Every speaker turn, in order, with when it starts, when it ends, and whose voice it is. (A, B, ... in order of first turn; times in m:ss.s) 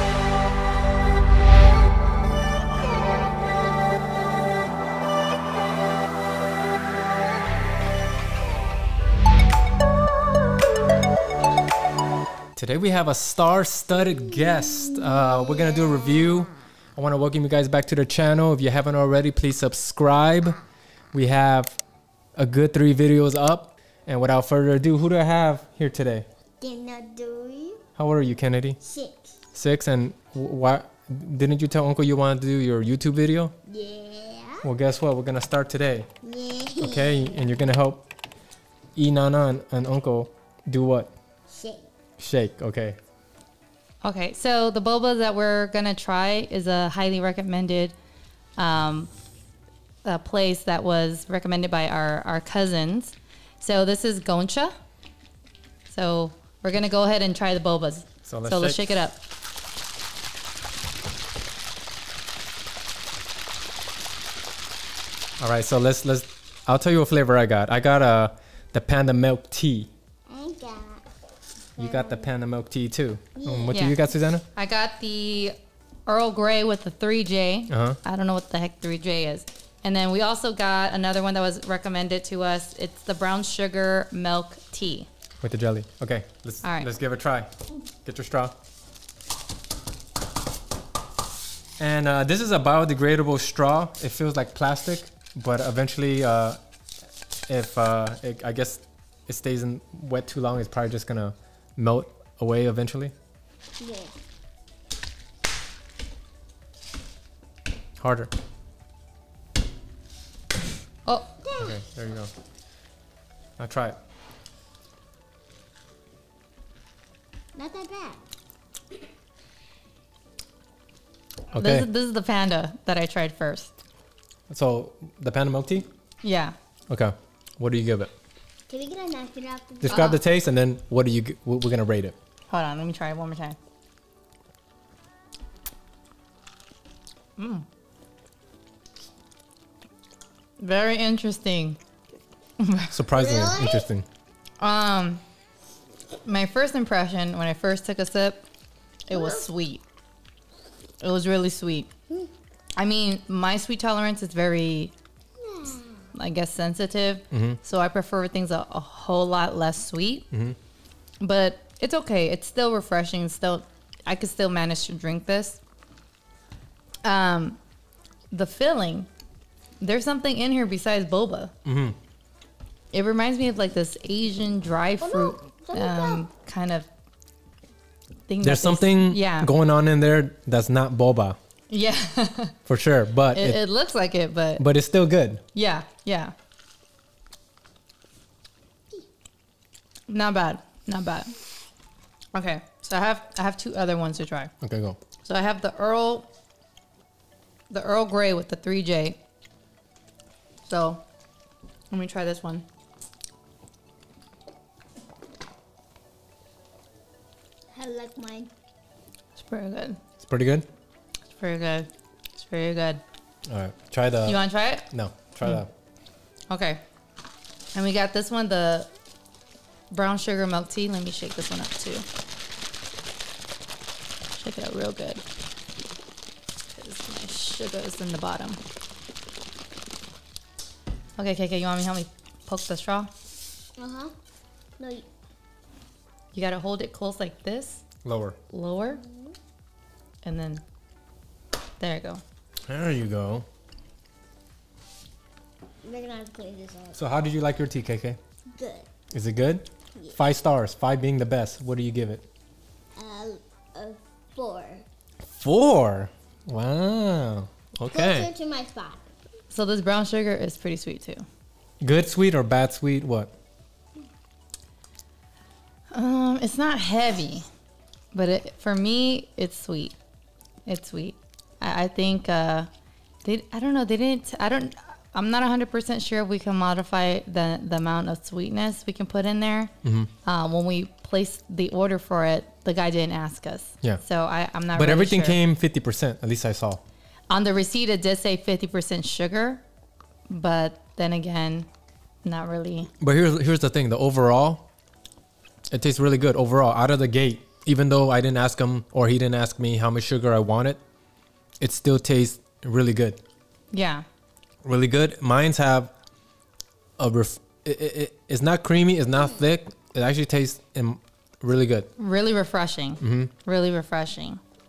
0:12.6-0:20.6 A
0:21.1-0:21.8 A
0:22.4-0:26.2 A
0:26.6-0:27.8 B
0:28.0-0:28.8 A
0:28.8-0:29.4 B
0:29.5-0:33.5 A
0:33.6-0:34.6 B
0:34.6-0:36.1 A
0:36.2-0:37.3 B
0:36.8-0:38.1 A
0:39.0-0:41.1 A
0:41.5-0:41.9 B
0:42.2-0:43.0 A
0:44.0-0:47.9 C
0:48.6-0:49.1 C
0:50.0-0:54.7 C
0:55.9-0:59.2 C
0:58.3-0:58.8 A
1:05.4-1:09.9 A
1:10.3-1:11.0 B
1:11.8-1:12.3 B
1:11.8-1:14.4 A
1:13.4-1:13.8 B
1:13.7-1:14.0 C
1:14.5-1:25.1 C
1:17.7-1:18.0 A
1:25.4-1:27.5 A
1:26.6-1:26.9 C
1:28.0-1:28.5 A
1:31.8-1:36.6 A
1:37.5-1:43.1 A
1:43.8-1:44.1 B
1:48.0-1:48.3 A
1:51.6-1:52.3 A
1:53.6-1:54.0 A
1:57.5-1:58.2 B
2:01.5-2:01.9 A
2:01.6-2:03.7 C
2:04.5-2:05.9 A
2:06.2-2:06.5 C
2:06.9-2:08.1 A
2:08.7-2:10.0 B
2:09.8-2:12.1 A
2:09.9-2:10.2 C
2:12.5-2:13.6 C
2:17.4-2:17.6 C
2:20.6-2:21.8 C
2:22.6-2:23.0 C
2:22.9-2:24.0 A
2:23.1-2:23.9 B
2:24.6-2:25.2 C
2:26.2-2:28.4 C
2:29.1-2:29.8 C
2:29.1-2:29.5 B
2:31.0-2:31.9 C
2:32.8-2:34.9 C
2:35.4-2:36.0 B
2:36.1-2:40.3 C
2:37.3-2:37.6 A
2:40.3-2:40.6 A
2:41.2-2:45.6 C
2:47.0-2:47.6 C
2:48.3-2:49.1 C
2:49.8-2:51.5 C
2:51.6-2:52.0 A
2:52.9-2:56.9 C
2:55.0-2:56.2 B
2:58.3-2:59.5 C
2:58.4-3:01.4 A
3:01.7-3:02.5 C
3:02.7-3:03.6 A
3:03.3-3:04.6 C
3:04.6-3:05.4 A
3:05.5-3:06.3 C
3:10.1-3:11.3 C
3:12.3-3:14.5 C
3:14.6-3:15.0 A
3:15.2-3:16.3 C
3:17.7-3:19.2 C
3:20.6-3:21.0 C
3:21.9-3:22.6 C
3:27.7-3:28.5 B
3:29.4-3:30.0 C
3:30.2-3:30.6 A
3:31.4-3:33.0 C
3:33.5-3:35.7 A
3:34.2-3:34.9 C
3:36.5-3:36.8 C
3:37.7-3:38.9 C
3:39.9-3:42.0 C
3:44.3-3:45.2 C
3:46.7-3:48.6 C
3:51.2-3:53.1 C
3:53.8-3:54.1 B
3:54.8-3:55.1 B
3:56.3-3:57.8 C
3:58.0-3:58.4 A
3:58.5-3:59.0 C
3:58.9-3:59.3 B
4:00.2-4:00.6 C
4:01.8-4:02.2 C
4:02.7-4:03.4 A
4:05.8-4:07.0 B
4:06.9-4:08.2 A
4:08.5-4:08.9 B
4:09.1-4:12.2 A
4:13.0-4:14.8 B
4:15.3-4:18.3 A
4:17.9-4:19.0 B
4:19.5-4:21.2 C
4:21.8-4:23.3 A
4:25.9-4:27.5 C
4:28.1-4:30.0 C
4:30.6-4:32.7 C
4:33.2-4:39.7 C
4:39.8-4:40.1 A
4:40.2-4:45.4 C
4:44.7-4:46.8 A
4:47.3-4:49.6 C
4:50.3-4:51.7 C
4:52.2-4:52.9 C
4:53.0-4:54.7 A
4:55.7-5:00.8 A
5:01.6-5:03.2 A
5:03.7-5:04.0 C
5:04.6-5:05.9 A
5:07.0-5:11.9 A
5:12.0-5:14.4 C
5:13.0-5:13.3 A